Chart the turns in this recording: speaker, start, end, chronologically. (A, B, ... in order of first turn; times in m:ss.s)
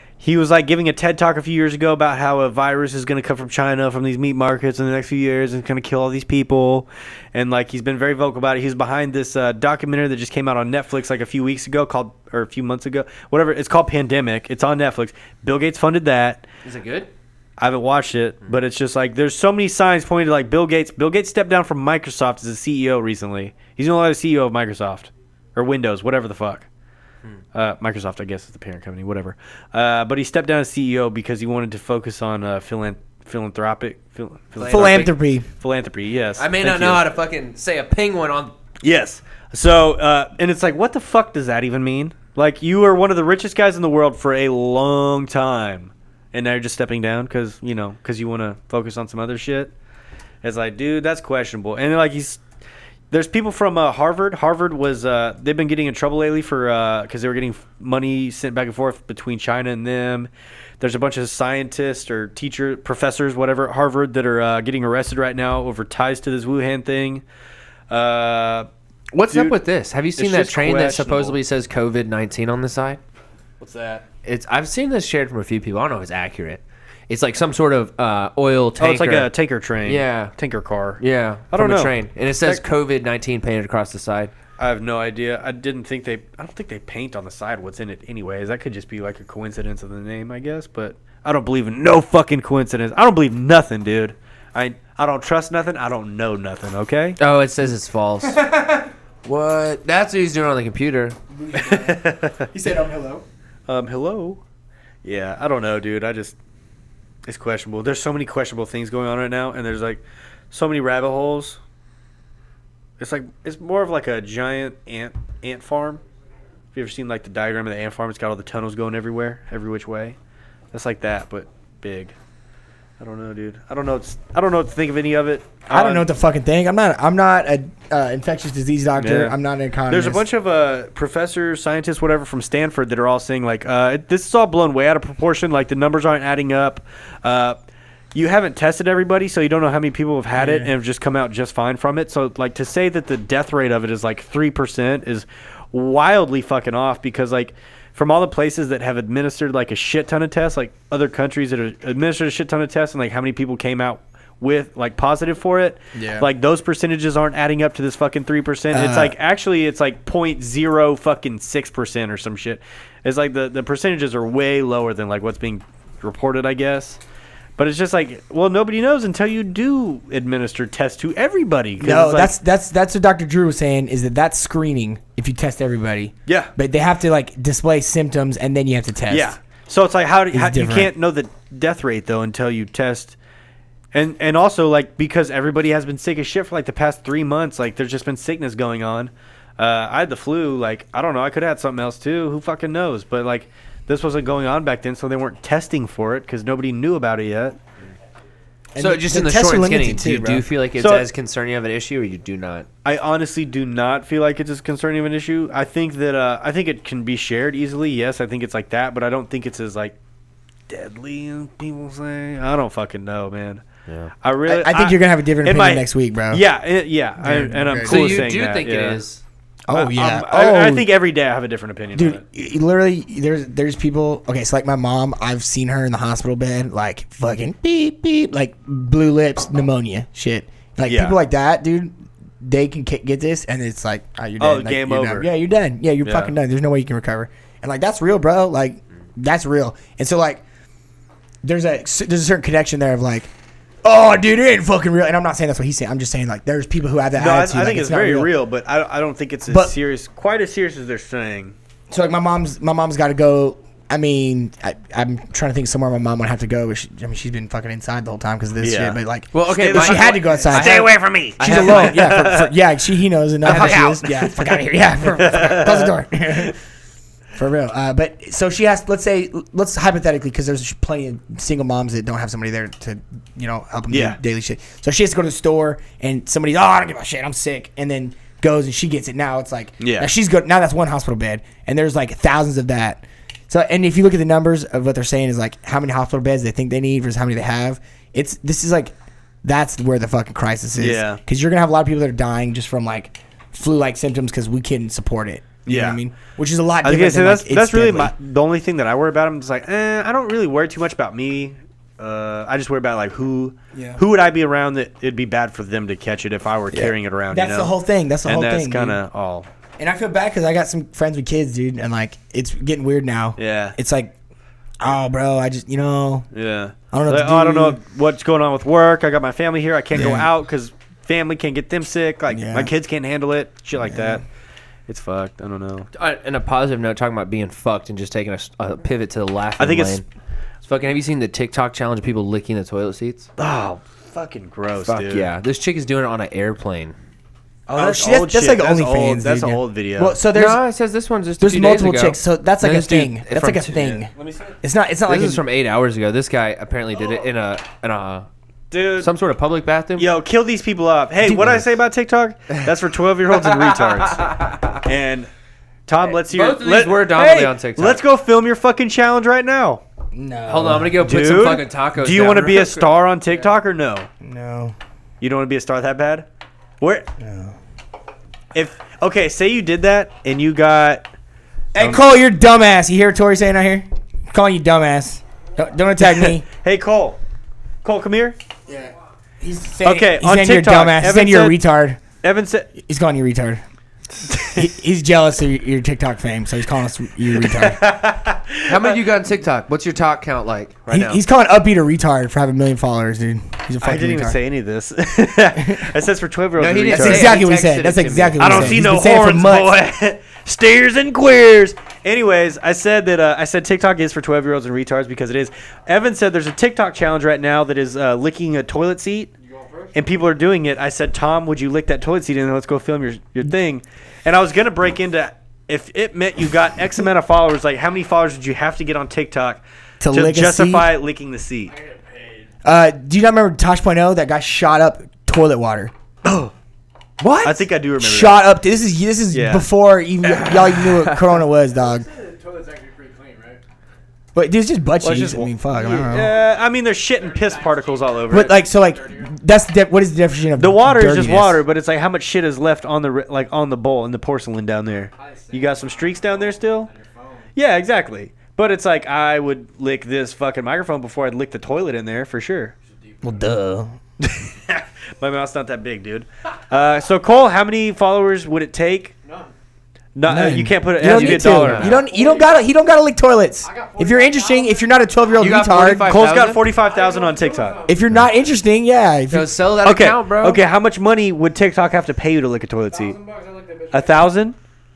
0:00.2-0:16.5 A
0:16.6-0:17.1 B
0:17.6-0:26.7 A
0:27.5-0:37.0 A
0:34.6-0:35.2 B
0:34.7-0:35.5 C
0:36.4-0:38.5 B
0:38.8-0:49.7 A
0:50.4-0:52.4 A
0:53.1-1:07.2 A
1:07.9-1:08.7 A
1:09.1-1:13.0 B
1:09.3-1:09.6 A
1:10.2-1:11.4 A
1:13.6-1:14.0 A
1:14.2-1:19.3 B
1:18.8-1:22.6 A
1:19.8-1:20.3 B
1:21.0-1:24.3 B
1:24.6-1:37.2 A
1:37.2-1:38.4 B
1:38.2-1:38.9 C
1:39.2-1:41.2 B
1:41.3-1:43.2 C
1:41.5-1:42.5 A
1:43.7-1:44.4 A
1:45.0-1:46.4 A
1:47.3-1:51.6 A
1:53.0-1:56.0 A
1:56.7-2:00.2 A
2:00.7-2:02.2 A
2:03.0-2:06.1 A
2:05.7-2:10.2 C
2:09.0-2:09.4 A
2:09.9-2:17.6 A
2:18.1-2:47.0 A
2:38.7-2:39.2 C
2:47.6-2:52.4 A
2:51.8-2:59.4 C
2:56.3-2:56.5 A
2:59.1-3:03.2 A
3:00.3-3:00.9 C
3:03.9-3:17.6 A
3:18.7-3:20.4 C
3:18.8-3:22.7 B
3:20.8-3:21.1 A
3:22.8-3:30.0 A
3:30.7-3:33.6 A
3:33.9-3:34.1 B
3:34.2-3:39.0 A
3:34.5-3:36.4 C
3:37.2-3:38.2 C
3:37.8-3:39.2 B
3:39.7-3:40.9 C
3:39.7-3:42.2 A
3:41.9-4:00.4 C
3:50.9-3:51.2 A
3:54.4-3:55.3 A
3:56.0-3:56.3 A
4:01.4-4:03.3 C
4:03.8-4:08.3 C
4:07.2-4:11.6 A
4:09.5-4:09.7 C
4:11.9-4:26.6 C
4:18.6-4:22.5 A
4:19.3-4:22.3 B
4:23.4-4:24.1 B
4:23.5-4:24.4 A
4:25.1-4:26.5 A
4:27.4-4:58.1 C
4:33.9-4:34.2 A
4:39.8-4:40.1 A
4:50.8-4:51.2 A
4:55.7-4:56.0 A
4:56.8-5:07.7 A
5:03.7-5:04.0 C
5:06.7-5:09.0 C
5:08.2-5:09.5 A
5:09.8-5:14.2 C
5:13.4-5:13.8 A
5:14.8-5:16.3 C
5:16.3-5:24.2 A
5:16.9-5:17.8 C
5:19.9-5:20.3 C
5:22.3-5:22.7 C
5:23.8-5:24.2 C
5:24.9-5:25.9 A
5:26.0-5:30.0 B
5:29.6-5:30.0 A
5:30.6-5:33.3 B
5:33.4-5:35.3 A
5:34.8-5:37.0 B
5:37.7-5:40.2 A
5:37.7-5:40.6 C
5:40.3-5:43.9 B
5:41.4-5:45.4 C
5:43.8-5:44.6 A
5:45.1-5:48.3 B
5:48.7-5:49.1 A
5:49.0-5:50.1 B
5:50.0-5:55.3 A
5:51.2-5:51.6 C
5:53.6-5:54.8 B
5:55.9-5:59.8 A
5:56.0-5:58.0 B
6:00.1-6:01.0 C
6:00.5-6:03.0 B
6:01.0-6:04.1 A
6:04.2-6:04.8 C
6:05.2-6:06.3 A
6:06.8-6:07.1 A
6:07.2-6:07.6 C
6:08.5-6:11.1 A
6:11.8-6:16.4 C
6:11.8-6:12.0 A
6:16.0-6:17.2 A
6:17.8-6:18.4 A
6:18.7-6:22.0 C
6:19.8-6:21.6 A
6:22.2-6:22.7 A
6:22.8-6:23.6 C
6:24.2-6:24.7 A
6:24.5-6:27.9 C
6:27.4-6:29.0 A
6:28.7-6:31.2 B
6:30.9-6:34.4 C
6:33.8-6:37.4 A
6:35.6-6:35.9 C
6:36.6-6:38.8 B
6:36.9-6:39.8 C
6:38.4-6:49.3 A
6:49.4-6:50.0 D
6:49.9-7:01.8 A
7:00.0-7:00.9 C
7:01.7-7:02.5 D
7:02.6-7:05.9 C
7:06.2-7:06.5 A
7:07.2-7:07.5 B
7:07.4-7:08.5 A
7:08.0-7:12.1 C
7:09.3-7:09.7 A
7:10.2-7:11.2 A
7:11.8-7:13.6 D
7:14.4-7:16.3 C
7:15.0-7:18.6 A
7:16.0-7:16.5 D
7:17.1-7:19.4 D
7:18.3-7:21.6 C
7:20.6-7:26.9 A
7:25.2-7:27.5 D
7:27.6-7:32.7 A
7:32.9-7:33.5 D
7:33.2-7:34.0 C
7:34.2-7:39.1 A
7:39.2-7:39.5 D
7:40.2-7:42.0 A
7:40.3-7:46.2 C
7:41.0-7:42.0 B
7:41.9-7:42.6 D
7:43.6-7:45.0 D
7:45.4-7:46.7 B
7:46.0-7:47.8 A
7:46.8-7:48.2 D
7:47.9-7:49.6 C
7:49.3-7:50.6 B
7:49.8-7:53.2 A
7:52.9-7:54.4 D
7:53.9-7:54.6 A